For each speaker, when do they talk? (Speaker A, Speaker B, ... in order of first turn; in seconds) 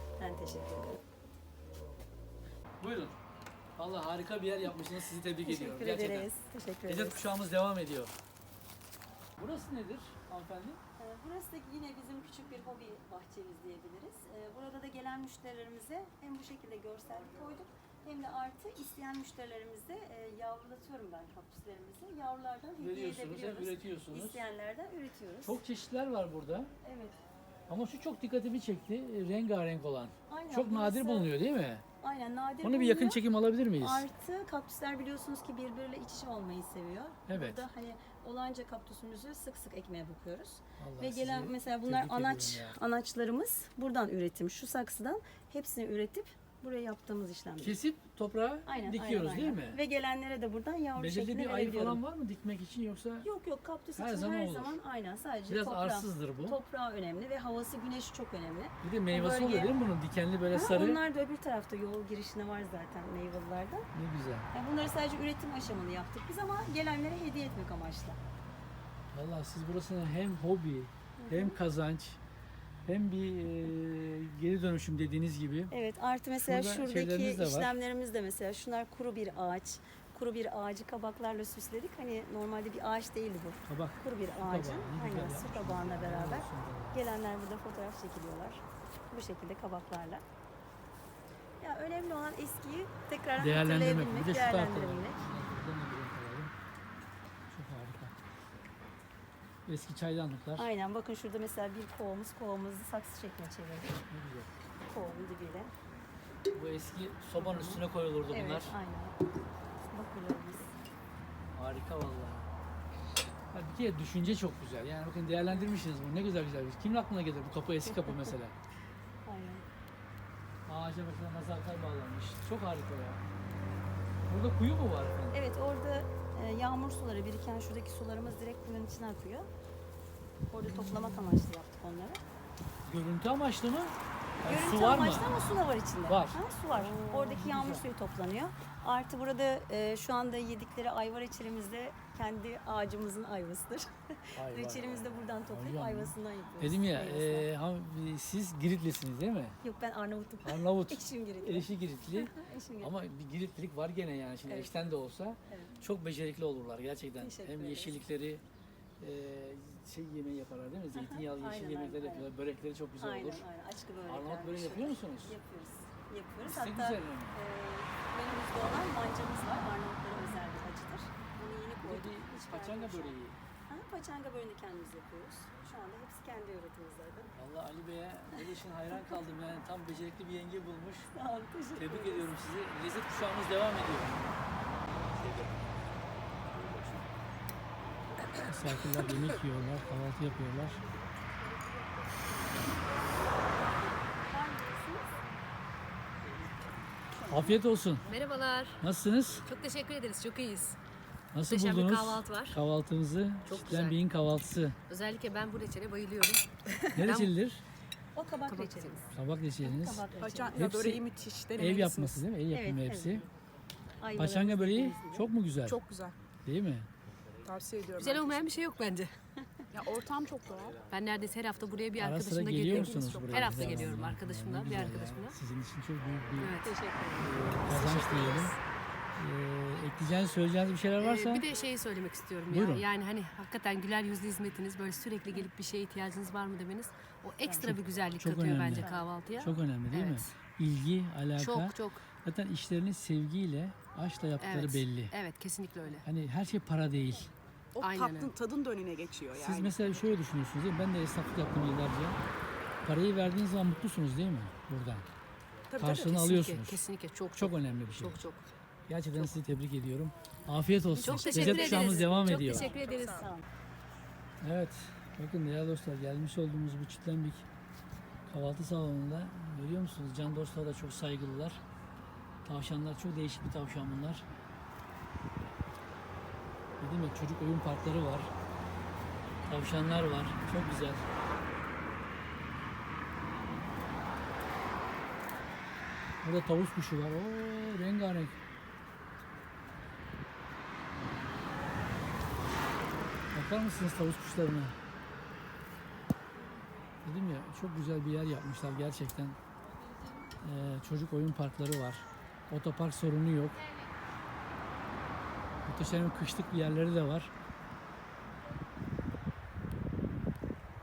Speaker A: 0.2-1.0, 5.4-7.3, 11.0-25.6, 26.8-27.1, 30.3-31.3, 32.0-33.2, 33.8-47.8, 48.6-52.0, 53.2-59.7, 60.5-63.9, 64.5-68.2, 71.2-71.6, 75.7-90.2, 91.6-95.2, 100.6-104.0, 104.8-105.7, 107.4-109.2, 109.9-110.7, 119.2-119.6, 125.3-129.5, 130.5-132.2, 134.4-147.5, 149.6-152.9, 154.5-154.8, 155.5-155.8, 157.2-157.9, 160.9-162.3, 163.0-177.3, 181.1-182.3, 194.3-195.1, 197.2-197.5, 208.1-209.1, 209.6-210.7, 212.5-213.2, 214.0-215.3, 226.6-227.4, 237.4-237.7, 238.7-239.1, 261.3-263.4
Speaker B: 2.8-3.2, 3.8-6.3, 6.9-8.1, 9.4-10.8, 22.8-24.4, 25.4-26.7, 27.7-31.8, 32.6-34.0, 37.3-37.6, 40.8-42.8, 47.6-49.8, 51.0-53.3, 54.0-54.8, 55.5-56.6, 58.8-61.0, 63.9-64.5, 69.1-72.2, 72.8-75.7, 76.4-77.7, 83.7-87.0, 93.4-96.5, 97.5-98.1, 99.7-100.7, 104.1-104.5, 106.5-108.7, 111.5-112.5, 113.5-118.5, 120.7-123.2, 124.3-125.4, 132.8-135.4, 136.1-137.8, 144.3-149.6, 150.4-158.4, 159.0-163.4, 164.1-165.3, 166.4-167.4, 171.8-173.4, 177.3-181.1, 181.8-184.2, 188.4-190.8, 197.3-198.1, 198.8-199.4, 201.3-204.8, 206.9-207.6, 209.1-211.0, 211.6-213.2, 214.2-215.8, 216.4-216.9, 222.0-226.6, 227.2-228.6, 229.2-231.5, 232.5-232.8, 237.6-245.1, 246.0-247.3, 249.3-252.2, 252.8-255.1, 255.8-256.8, 257.4-258.2, 258.9-262.7, 264.4-267.4, 268.3-271.6, 272.4-274.2, 276.8-278.3, 279.4-281.0, 286.2-288.4, 293.3-294.8, 297.0-299.4, 300.4-303.6, 305.6-307.3
Speaker C: 198.1-198.8, 199.3-200.8, 201.4-202.6, 203.4-204.0, 204.9-207.3, 208.4-209.0, 218.0-219.1, 220.9-225.4, 226.4-226.7, 227.7-228.5, 231.0-240.3, 241.4-242.0, 244.4-246.1, 247.8-248.3, 255.8-258.5, 261.0-263.2
Speaker D: 210.2-212.2, 215.7-216.2, 217.4-218.4, 219.7-220.8, 222.7-223.9, 247.7-249.8, 255.7-255.9, 262.6-263.3